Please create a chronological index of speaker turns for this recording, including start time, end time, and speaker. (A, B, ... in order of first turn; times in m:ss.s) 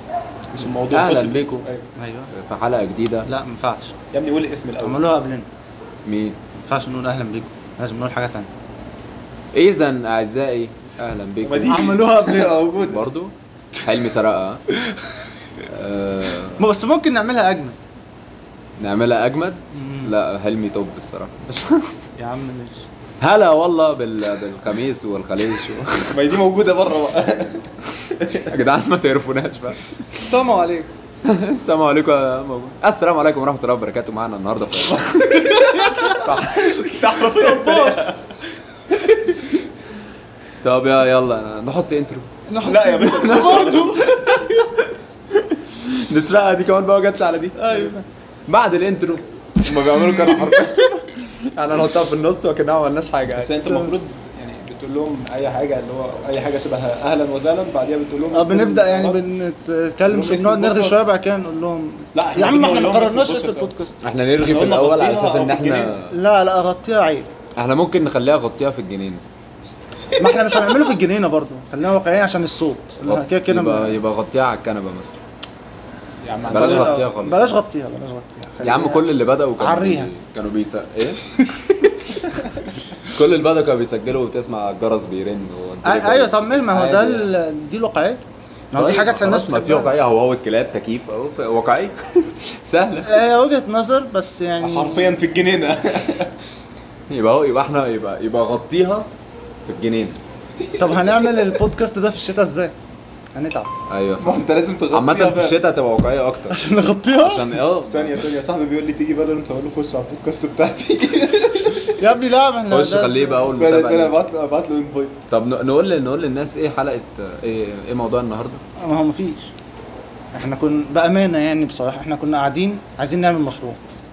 0:00.5-0:01.9 A
0:00.9-0:01.7 B
0:02.0-0:02.3 C
0:02.3-0:03.3 B
0:03.3-0:03.9 C
0:04.1-0:05.0 A
0:04.8-0:05.5 C
0:06.1-0:06.4 B
0:06.6-0:08.5 C
0:09.5-0:12.0 B
0:11.4-0:12.9 A
0:11.7-0:12.9 C
0:12.8-0:14.6 B
0:15.6-0:16.7 B
0:16.6-0:17.8 C
0:18.8-0:21.8 B
0:19.8-0:20.1 C
0:22.2-0:22.8 C
0:23.2-0:26.2 B
0:26.1-0:28.5 A
0:28.3-0:29.8 B
0:30.2-0:30.9 C
0:31.2-0:37.0 B
0:35.3-0:38.2 A
0:35.6-0:36.1 C
0:37.2-0:38.0 C
0:38.9-0:39.4 A
0:40.6-0:42.3 B
0:42.5-0:44.3 C
0:42.6-0:44.7 A
0:43.5-0:43.8 B
0:45.5-0:53.6 B
0:47.6-0:48.0 C
0:49.7-0:50.7 C
0:53.3-0:59.2 A
0:53.6-0:53.9 C
0:58.3-1:03.9 C
1:00.1-1:01.0 A
1:02.2-1:03.7 A
1:04.0-1:06.2 B
1:04.4-1:05.9 A
1:06.1-1:07.3 C
1:07.6-1:09.2 B
1:10.2-1:14.0 C
1:13.1-1:15.2 B
1:16.2-1:17.0 A
1:16.5-1:17.6 B
1:16.5-1:20.1 C
1:18.6-1:21.2 B
1:21.4-1:21.7 C
1:22.1-1:22.5 B
1:23.0-1:27.3 B
1:25.8-1:28.2 C
1:28.7-1:29.9 C
1:28.8-1:33.2 B
1:33.0-1:35.2 C
1:34.6-1:36.3 A
1:37.1-1:39.1 B
1:39.6-1:40.2 B
1:40.6-1:41.4 A
1:40.8-1:42.7 C
1:43.3-1:43.7 C
1:43.9-1:48.2 B
1:44.2-1:45.6 A
1:46.5-1:47.6 C
1:47.9-1:52.0 A
1:52.0-1:53.4 C
1:52.7-1:54.2 B
1:53.5-1:55.2 A
1:55.3-1:58.6 B
1:58.8-1:59.5 C
2:00.3-2:03.8 C